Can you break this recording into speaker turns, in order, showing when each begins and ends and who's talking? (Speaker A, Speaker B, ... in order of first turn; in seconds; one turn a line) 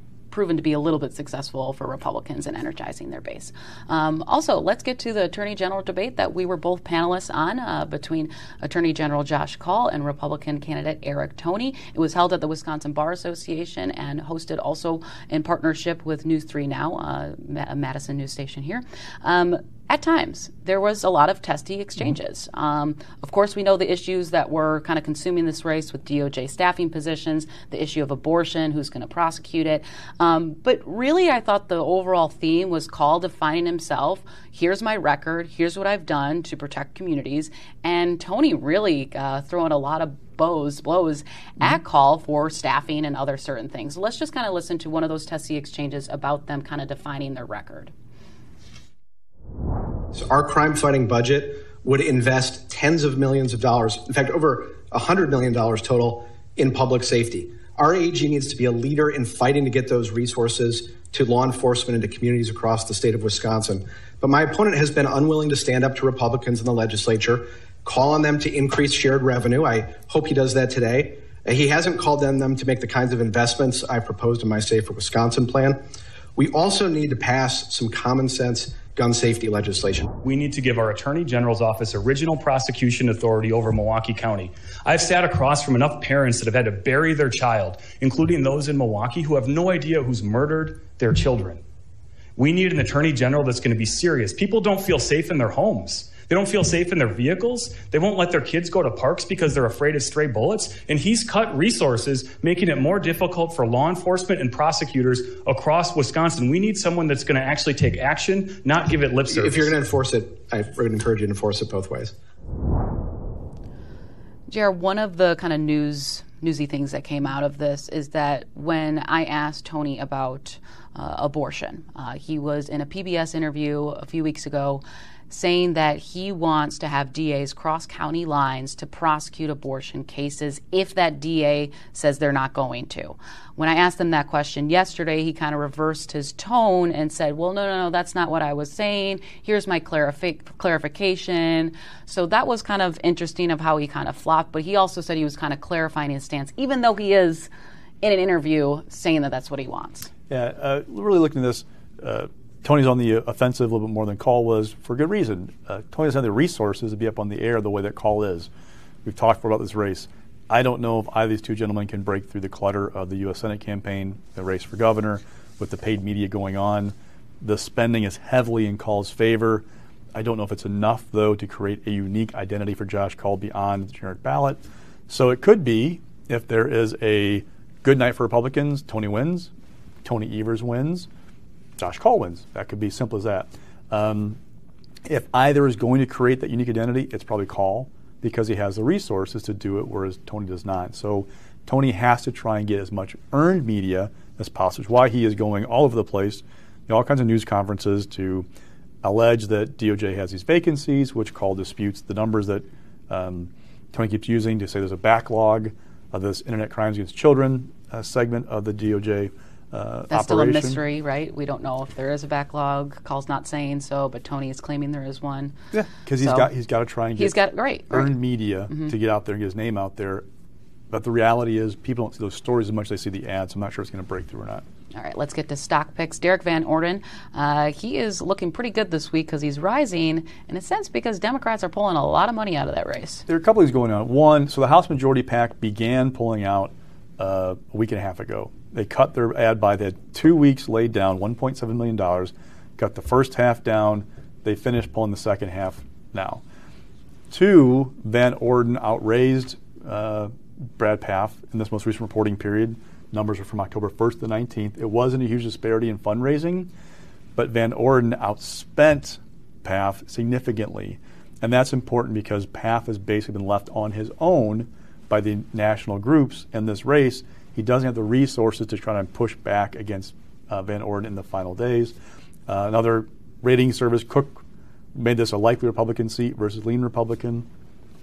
Speaker A: 0.3-47.9
Speaker B: 50.1-75.8
Speaker B: 76.4-80.1
Speaker C: 80.2-91.6
Speaker C: 92.4-109.7
Speaker B: 109.3-112.1
Speaker A: 114.5-147.5
Speaker A: 148.0-150.1
Speaker D: 150.3-158.5
Speaker D: 159.1-179.5
Speaker D: 180.0-181.1
Speaker D: 181.8-184.4
Speaker D: 185.1-198.5
Speaker D: 199.0-210.8
Speaker A: 210.1-215.6
Speaker D: 215.7-220.2
Speaker A: 216.2-216.5
Speaker A: 217.2-218.1
Speaker D: 220.9-224.6
Speaker A: 224.9-233.2
Speaker D: 233.3-246.4
Speaker D: 247.3-256.7
Speaker D: 257.4-271.9
Speaker D: 272.5-274.4
Speaker D: 274.9-277.5